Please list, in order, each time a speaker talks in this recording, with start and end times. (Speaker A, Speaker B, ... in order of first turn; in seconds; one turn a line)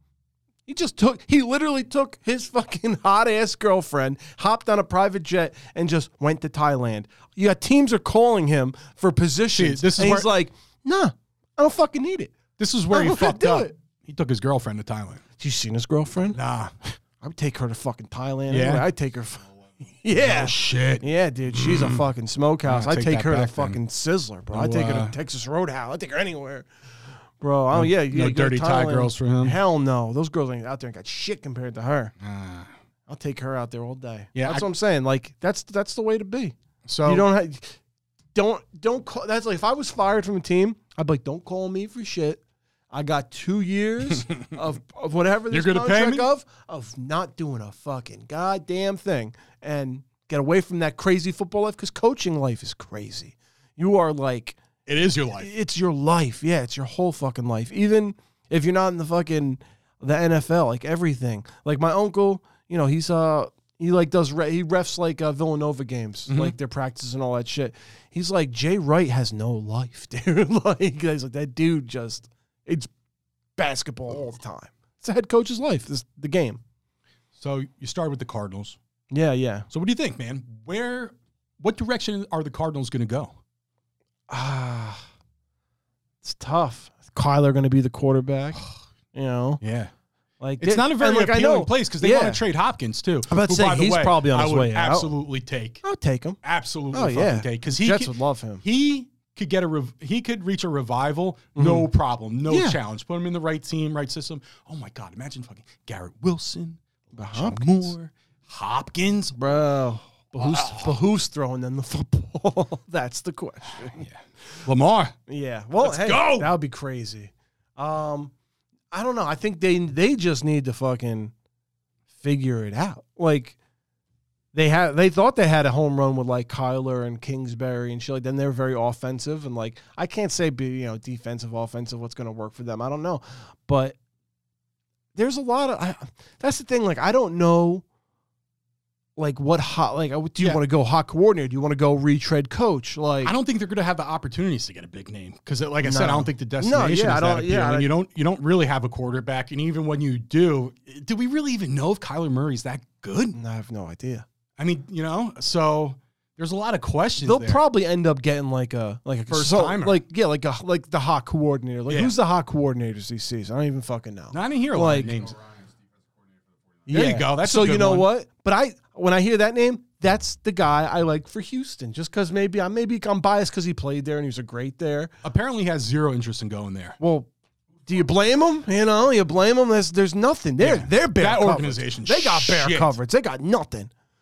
Speaker A: 0.7-12.4
Speaker B: 9.5-10.3
Speaker B: 12.6-15.2
Speaker A: 12.9-13.7
Speaker A: 15.4-16.4
Speaker B: 16.3-16.9
Speaker A: 17.2-26.7
Speaker B: 18.5-18.9
Speaker B: 20.1-22.0
Speaker B: 22.6-23.8
Speaker B: 24.5-25.1
Speaker A: 27.4-32.1
Speaker B: 27.7-29.6
Speaker B: 32.2-32.7
Speaker A: 33.1-37.8
Speaker B: 34.3-34.6
Speaker B: 36.9-37.3
Speaker A: 38.3-42.4
Speaker A: 42.9-54.6
Speaker B: 45.5-46.3
Speaker B: 54.9-55.5
Speaker A: 55.4-72.9
Speaker B: 66.3-66.5
Speaker A: 73.6-76.6
Speaker B: 77.3-78.8
Speaker A: 79.1-79.7
Speaker B: 79.7-83.4
Speaker A: 84.3-85.0
Speaker A: 86.2-89.6
Speaker B: 89.6-89.9
Speaker A: 90.4-92.4
Speaker B: 90.6-95.8
Speaker A: 93.3-95.1
Speaker A: 95.8-96.4
Speaker B: 96.4-109.4
Speaker A: 96.9-98.6
Speaker A: 101.5-101.9
Speaker A: 102.5-102.8
Speaker A: 107.1-107.9
Speaker A: 109.3-114.0
Speaker B: 110.3-111.0
Speaker B: 113.8-115.1
Speaker A: 115.3-118.3
Speaker B: 115.8-116.5
Speaker A: 118.9-121.3
Speaker A: 122.2-123.6
Speaker A: 124.5-134.0
Speaker A: 135.1-137.8
Speaker A: 139.2-143.3
Speaker B: 143.2-153.3
Speaker A: 145.8-147.9
Speaker A: 153.3-154.2
Speaker B: 154.6-157.6
Speaker A: 157.2-165.1
Speaker B: 159.3-160.0
Speaker B: 161.9-162.1
Speaker B: 164.3-165.4
Speaker A: 166.8-175.1
Speaker B: 166.9-168.1
Speaker B: 175.2-177.0
Speaker A: 177.0-177.3
Speaker A: 177.8-183.9
Speaker B: 180.6-183.0